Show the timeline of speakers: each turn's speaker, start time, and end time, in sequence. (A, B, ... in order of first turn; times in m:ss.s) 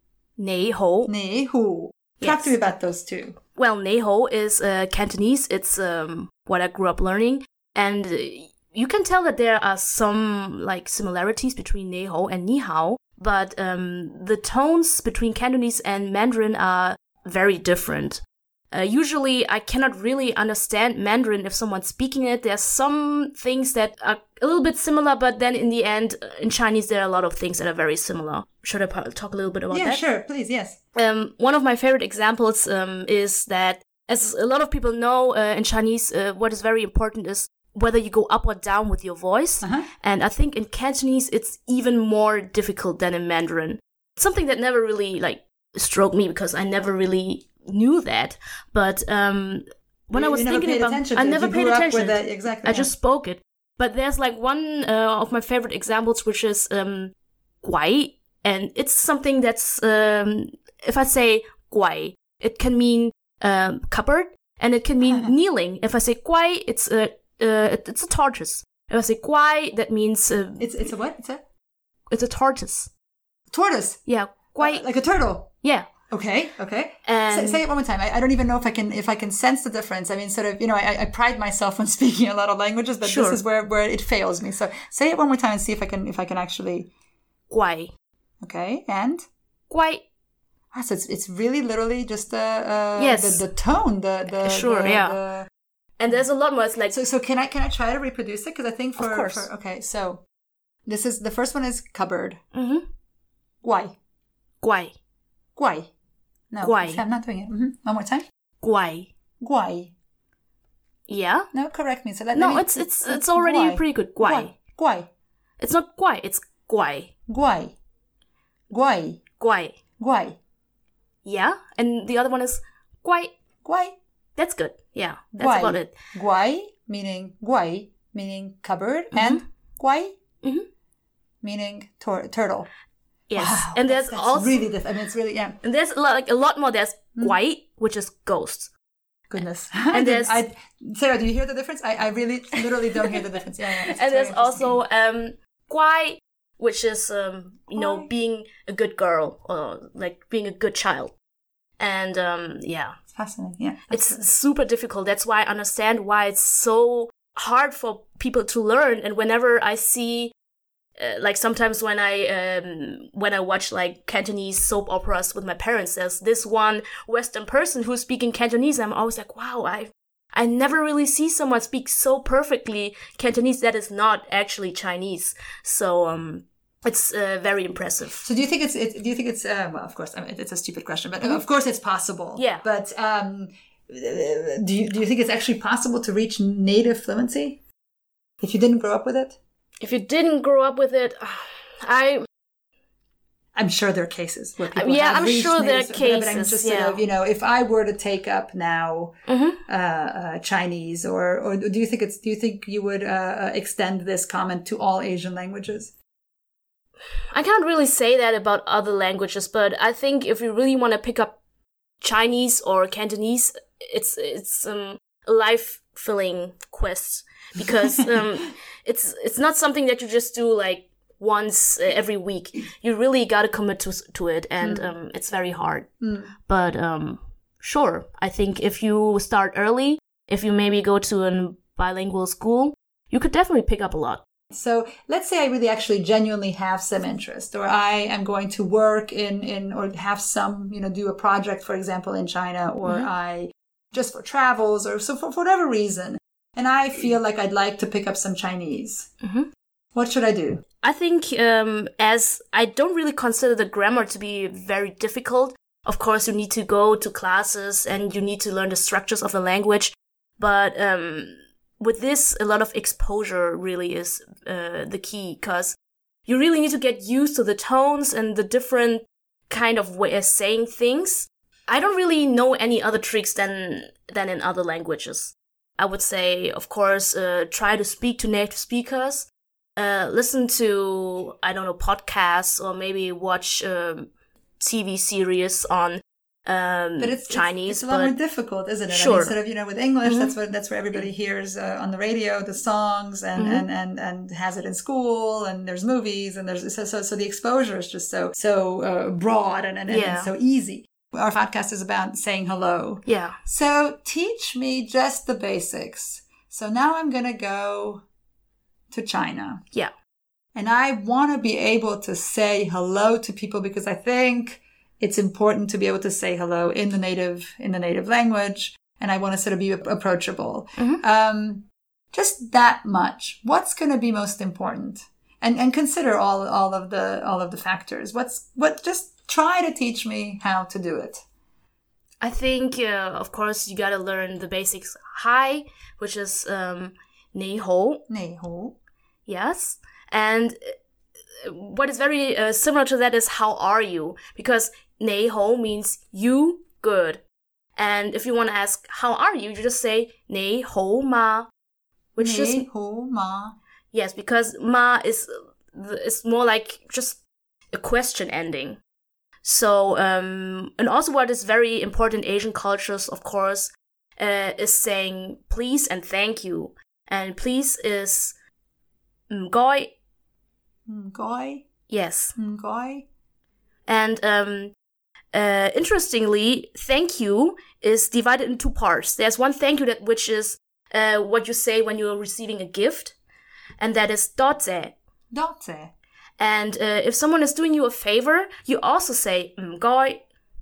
0:00.4-0:01.1 A
0:01.1-0:03.4 B
0:02.2-0:02.5 A
0:03.6-0:30.0 A
0:29.7-0:30.8 B
0:30.9-0:57.1 A
0:39.6-0:39.9 B
0:50.1-0:52.9 B
0:57.6-1:10.9 A
1:05.0-1:05.3 B
1:10.6-1:11.4 B
1:12.1-1:12.9 A
1:13.5-1:14.0 B
1:14.0-1:14.8 A
1:14.5-1:15.5 B
1:15.6-1:15.9 A
1:16.1-1:26.9 B
1:17.0-1:17.6 A
1:23.0-1:23.4 A
1:27.5-1:27.9 A
1:28.4-1:29.2 B
1:29.7-1:30.0 A
1:30.7-1:35.5 B
1:33.0-1:33.4 A
1:34.4-1:35.2 A
1:36.0-1:37.0 A
1:36.9-1:40.2 B
1:39.0-1:39.5 A
1:40.8-1:42.4 B
1:42.5-1:42.8 A
1:43.6-1:43.9 B
1:44.6-1:44.9 A
1:45.6-1:45.9 B
1:46.5-1:48.2 B
1:46.6-1:47.0 A
1:48.6-1:49.1 A
1:49.4-1:49.9 B
1:51.1-1:51.5 A
1:51.5-1:55.1 B
1:52.3-1:54.5 A
1:55.6-1:57.1 A
1:57.3-1:57.7 B
1:58.7-1:59.2 B
1:59.4-1:59.8 A
2:00.0-2:00.4 B
2:01.2-2:03.3 A
2:03.6-2:03.9 B
2:04.4-2:05.9 A
2:05.4-2:10.1 B
2:09.1-2:09.4 A
2:11.4-2:12.7 B
2:13.3-2:14.6 A
2:13.4-2:15.6 B
2:15.6-2:18.7 A
2:19.3-2:24.8 B
2:19.9-2:20.4 A
2:22.9-2:23.2 A
2:23.8-2:31.1 A
2:27.7-2:28.1 B
2:31.8-2:33.0 A
2:33.1-2:34.2 B
2:33.9-2:40.3 A
2:41.0-2:58.2 A
2:58.2-3:07.6 B
3:02.4-3:02.6 A
3:08.4-3:09.4 B
3:09.8-3:12.2 A
3:13.5-3:19.1 B
3:14.7-3:17.0 A
3:19.3-3:19.6 A
3:19.7-3:25.9 B
3:27.3-3:31.4 A
3:32.0-3:45.9 A
3:44.6-3:44.9 B
3:46.0-3:46.3 B
3:46.5-3:54.2 A
3:54.5-4:09.1 B
4:02.8-4:03.1 A
4:09.2-4:09.5 A
4:09.9-4:10.6 B
4:10.8-4:25.7 A
4:26.3-4:48.1 A
4:47.0-5:08.0 B
4:48.9-4:49.3 A
4:50.0-4:50.3 A
4:53.4-4:53.6 A
4:59.9-5:00.3 A
5:03.0-5:03.4 A
5:08.9-5:09.6 B
5:10.5-5:31.2 B
5:20.8-5:21.0 A
5:32.2-5:38.0 A
5:38.1-5:38.8 B
5:39.3-5:40.7 A
5:41.4-5:47.2 A
5:47.8-5:51.5 A
5:52.2-5:52.6 A
5:52.2-5:53.6 B
5:53.9-5:57.2 A
5:57.7-5:58.8 A
5:59.4-6:08.3 A
6:09.3-6:09.9 A
6:10.9-6:11.6 B
6:11.9-6:12.4 A
6:12.4-6:13.0 B
6:13.9-6:14.7 A
6:15.3-6:23.1 A
6:23.8-6:24.9 A
6:25.3-6:25.9 B
6:26.4-6:30.2 A